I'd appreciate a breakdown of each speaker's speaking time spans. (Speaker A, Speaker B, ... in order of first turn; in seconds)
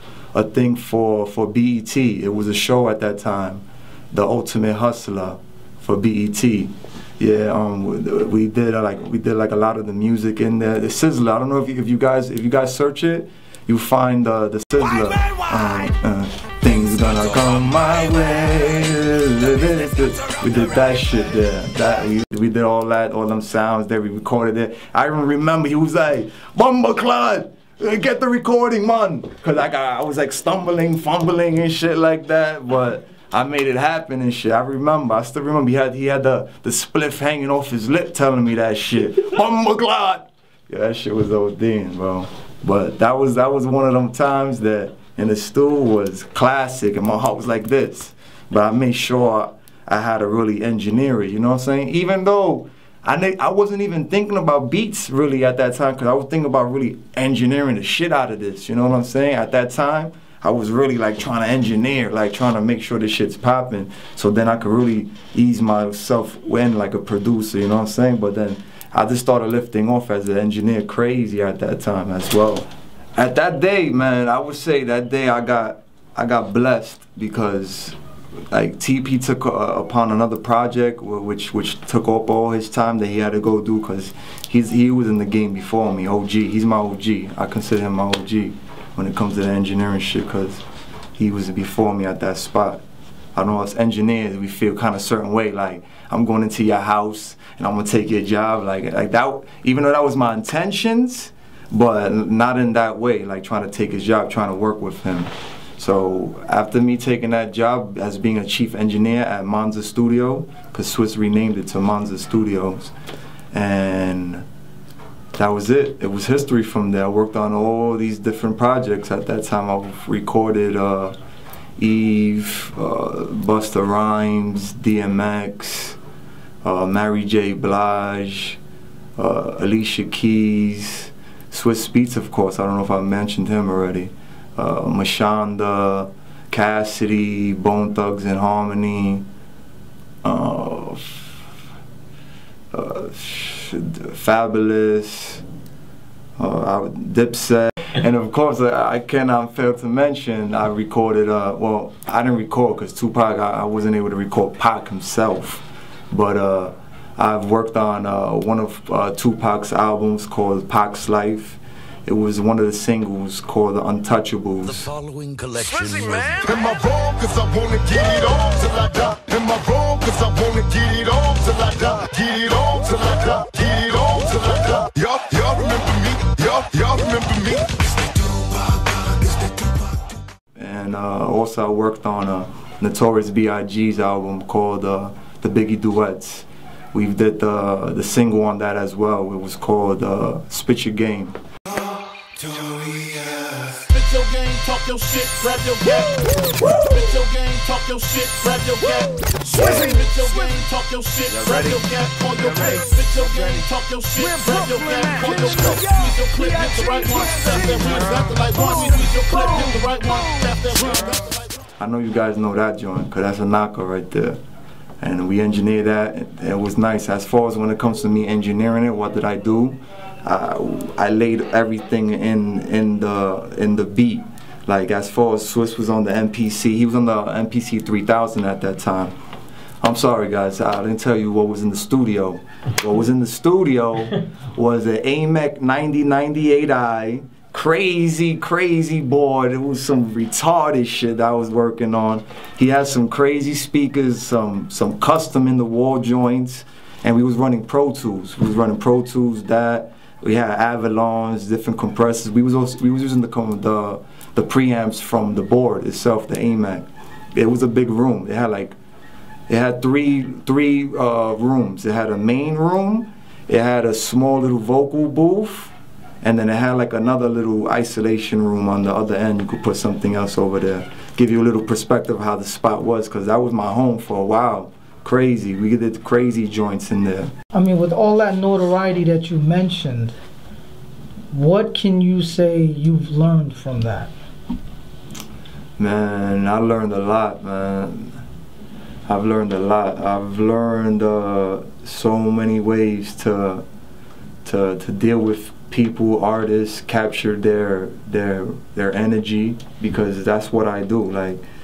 Speaker A: 0.3-78.0, 78.5-90.6, 91.2-92.8, 93.3-112.9, 113.5-114.5, 115.3-121.2, 121.8-126.0, 126.6-128.6, 129.2-139.2, 140.2-141.4, 142.7-145.4, 146.4-164.9, 180.5-191.3, 193.0-193.4, 201.3-201.9, 202.4-202.7, 211.8-214.4, 215.0-229.1, 229.8-258.8, 259.5-277.3, 285.8-288.2, 289.1-293.6, 294.4-301.4
Speaker B: 164.8-179.5, 192.4-193.7, 199.6-199.9, 204.4-205.5
Speaker C: 193.9-211.5
Speaker D: 277.5-280.1, 281.3-284.1